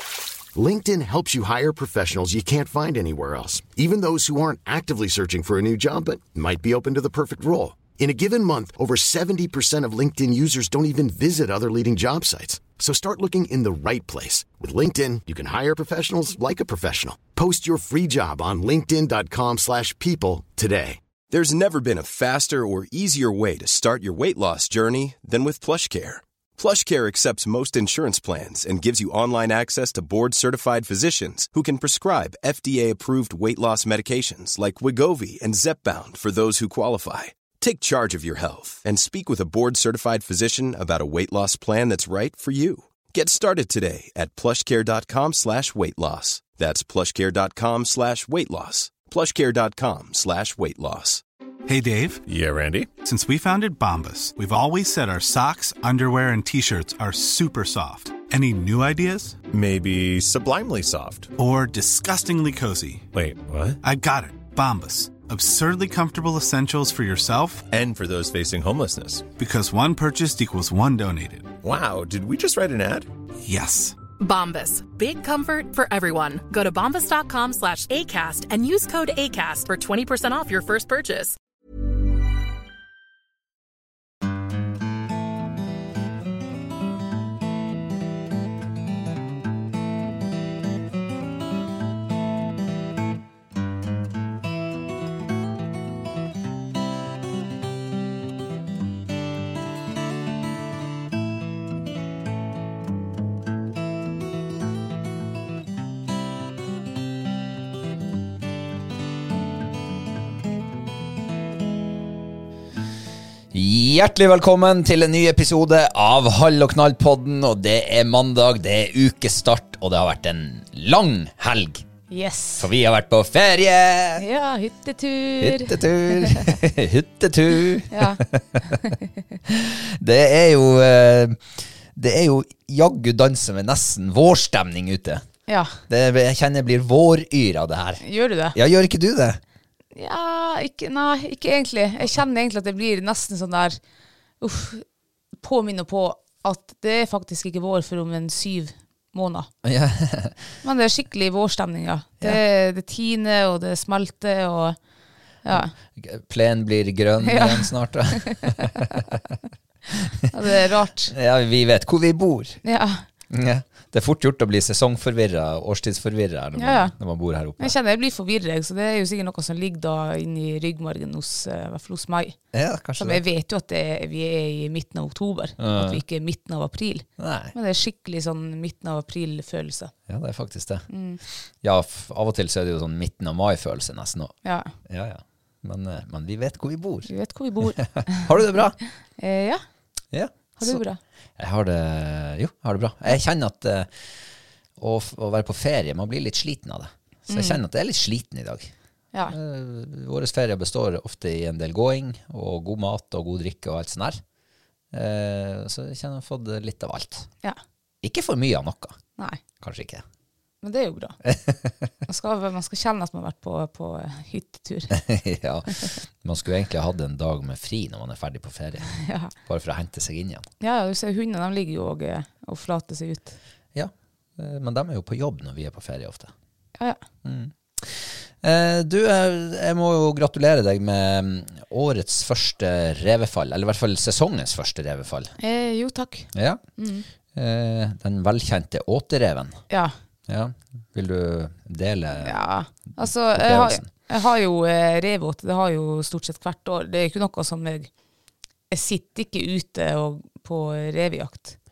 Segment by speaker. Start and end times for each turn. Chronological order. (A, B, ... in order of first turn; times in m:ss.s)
0:00.5-0:21.0 A
0:21.3-0:51.2 B
0:51.7-0:52.2 C
0:52.2-0:52.9 D
0:53.0-0:59.4 C
0:59.5-1:01.3 D
1:01.4-1:03.1 C
1:03.1-1:03.8 D
1:03.8-1:07.7 C
1:07.7-1:09.3 D
1:09.4-1:11.6 C
1:11.6-1:13.1 D
1:13.4-1:14.0 C
1:14.2-1:21.4 E
1:53.5-2:01.9 F
2:02.1-2:02.7 G
2:02.6-2:04.2 F
2:04.2-2:06.5 G
2:05.4-2:08.9 F
2:07.9-2:08.2 G
2:09.4-2:15.2 F
2:15.5-2:15.8 G
2:15.9-2:19.4 F
2:18.0-2:18.6 G
2:19.9-2:23.8 G
2:24.4-2:24.8 G
2:25.4-2:29.5 G
2:29.6-2:30.5 F
2:30.6-2:34.8 G
2:35.4-2:35.7 G
2:35.5-2:39.2 F
2:37.2-2:39.0 G
2:39.9-2:40.1 F
2:40.3-2:41.1 G
2:41.1-2:42.6 F
2:42.6-2:43.0 G
2:43.3-2:47.8 F
2:46.6-2:46.9 G
2:47.6-2:52.4 G
2:52.5-2:53.2 F
2:53.0-2:59.9 G
2:55.6-2:56.0 F
2:57.2-2:57.5 F
3:00.1-3:00.8 F
3:00.9-3:01.2 G
3:01.4-3:04.3 F
3:04.4-3:04.7 G
3:04.8-3:07.1 F
3:07.1-3:08.3 G
3:07.7-3:08.8 F
3:09.2-3:09.6 G
3:10.1-3:10.8 F
3:10.6-3:11.0 G
3:11.4-3:14.1 F
3:14.8-3:18.7 F
3:17.3-3:17.6 G
3:19.3-3:24.2 F
3:24.9-3:27.3 F
3:28.0-3:29.0 F
3:29.6-3:30.0 F
3:30.6-3:31.2 G
3:31.2-3:31.7 F
3:32.1-3:35.0 G
3:34.9-3:38.9 F
3:39.0-3:39.3 G
3:39.4-3:40.5 F
3:40.6-3:43.4 G
3:43.8-3:46.3 F
3:47.2-3:55.3 F
3:55.4-3:57.1 G
3:56.3-3:56.6 F
3:57.3-3:59.6 F
4:00.3-4:02.4 F
4:02.2-4:07.9 G
4:02.9-4:03.9 F
4:08.7-4:11.6 G